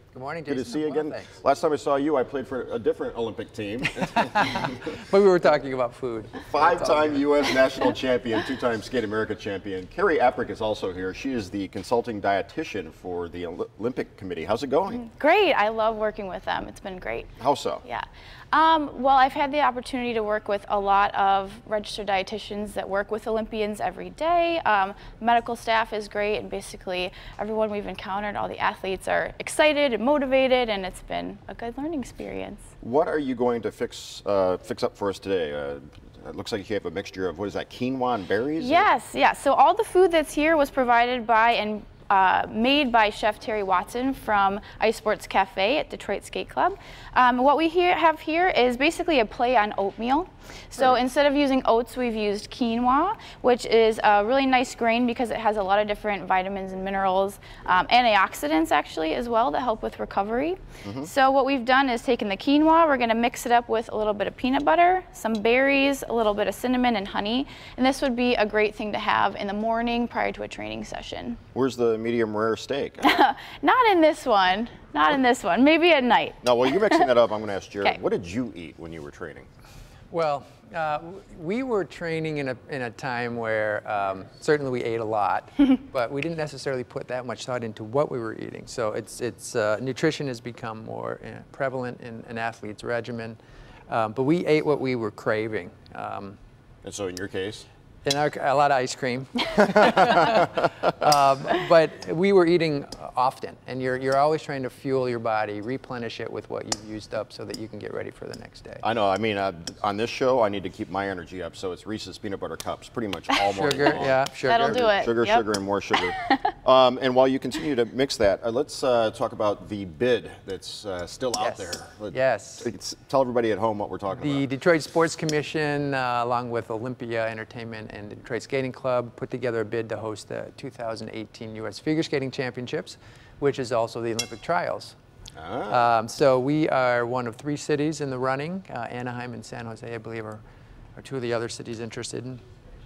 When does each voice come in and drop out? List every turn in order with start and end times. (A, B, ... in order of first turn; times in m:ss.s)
0:00.1-0:01.3 A
0:00.5-0:04.9 B
0:04.2-0:07.3 A
0:06.5-0:15.0 B
0:14.9-0:17.3 C
0:17.4-0:17.8 B
0:17.8-0:32.7 C
0:32.8-0:38.9 B
0:38.6-1:11.4 C
1:00.8-1:01.1 B
1:11.5-1:13.1 B
1:13.0-1:17.1 C
1:16.4-1:19.5 B
1:20.1-1:33.4 A
1:33.9-1:36.4 A
1:36.8-1:37.7 B
1:38.0-1:48.8 A
1:48.8-2:04.4 B
1:53.5-1:54.8 A
1:54.4-1:55.4 C
1:56.1-1:56.5 C
2:01.4-2:02.7 A
2:04.1-2:15.0 A
2:15.4-2:15.9 B
2:15.7-2:20.4 A
2:21.0-2:22.4 A